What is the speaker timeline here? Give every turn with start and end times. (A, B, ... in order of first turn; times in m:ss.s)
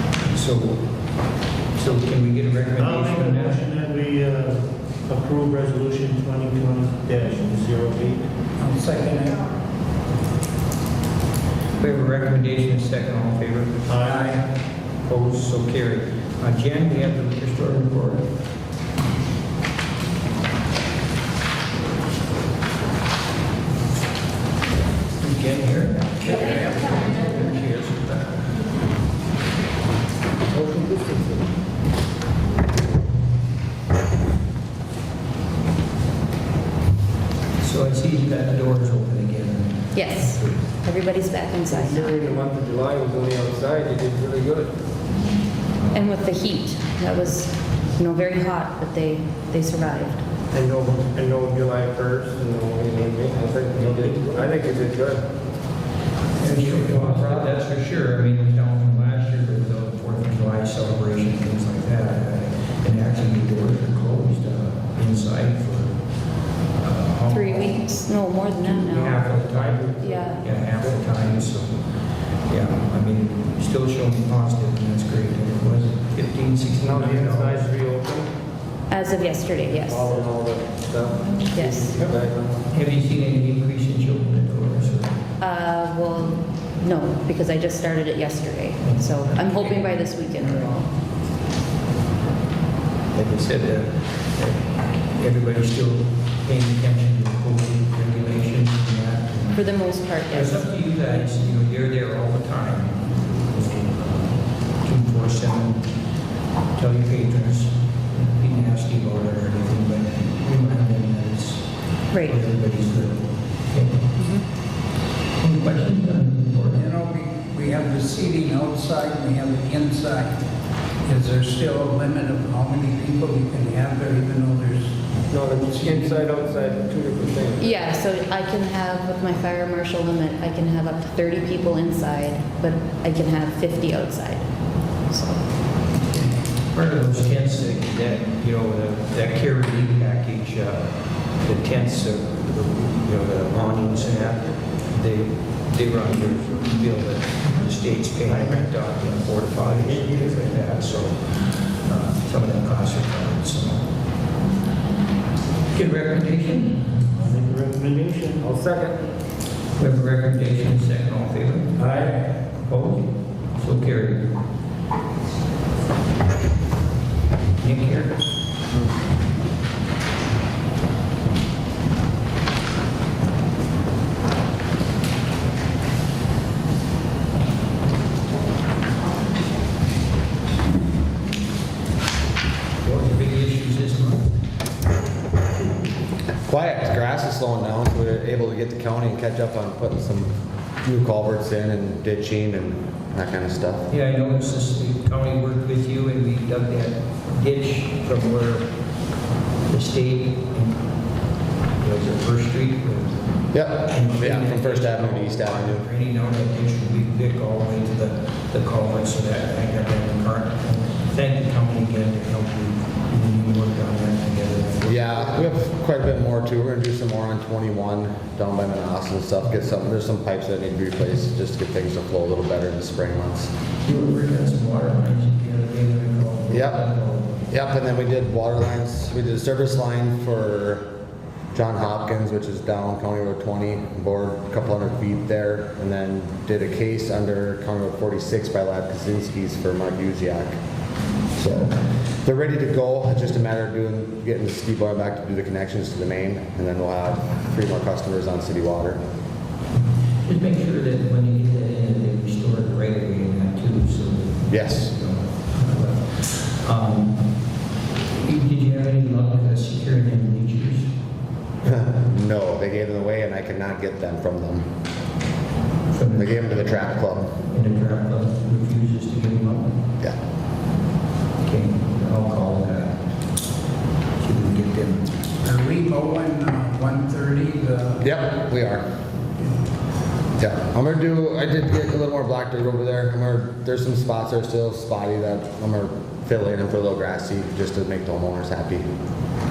0:00.2-0:00.8 A
0:01.7-0:03.7 A
0:02.7-0:08.2 B
0:08.6-0:09.5 C
0:11.8-0:14.4 A
0:13.8-0:14.4 B
0:15.0-0:18.3 A
0:25.2-0:28.4 A
0:30.5-0:31.3 D
0:37.6-0:40.7 A
0:39.9-0:42.2 E
0:41.7-0:44.7 D
0:45.9-0:50.2 E
0:50.5-0:55.2 D
0:53.8-0:54.4 B
0:56.4-1:05.9 A
1:06.8-1:07.8 A
1:07.3-1:09.4 E
1:08.6-1:11.8 A
1:09.4-1:09.9 D
1:10.0-1:10.4 E
1:12.5-1:17.8 A
1:16.8-1:18.3 D
1:18.9-1:20.2 E
1:19.7-1:22.5 D
1:21.5-1:22.0 E
1:22.7-1:25.1 A
1:25.4-1:30.9 E
1:28.8-1:30.0 A
1:33.1-1:45.8 A
1:39.5-1:40.7 E
1:46.8-1:51.6 A
1:52.1-1:52.4 E
1:52.2-1:54.1 A
1:54.2-1:54.4 E
1:55.4-1:56.8 A
1:56.7-2:00.3 C
2:01.0-2:04.9 C
2:05.3-2:07.7 D
2:05.6-2:06.3 C
2:07.6-2:14.5 E
2:15.1-2:15.4 E
2:16.1-2:20.9 A
2:21.4-2:33.8 A
2:35.7-2:36.9 A
2:37.1-2:38.5 B
2:38.4-2:39.0 D
2:39.8-2:44.3 A
2:47.6-2:48.2 A
3:02.8-3:04.3 A
3:06.5-3:13.9 F
3:13.9-3:18.7 A
3:19.7-3:20.8 A
3:21.8-3:23.2 A
3:23.5-3:25.8 F
3:23.8-3:35.5 A
3:34.8-3:43.5 F
3:43.8-3:47.4 A
3:46.5-3:46.8 F
3:47.5-3:50.8 F
3:51.5-4:00.6 F
4:01.3-4:09.0 F
4:10.2-4:17.2 A
4:14.5-4:14.8 F
4:18.2-4:20.9 A
4:21.6-4:24.6 F
4:25.9-4:26.7 A
4:26.2-4:27.3 F
4:27.4-4:29.7 A
4:31.4-4:32.9 A
4:34.2-4:35.1 A
4:35.4-4:38.1 C
4:38.0-4:38.9 F
4:40.4-4:48.9 F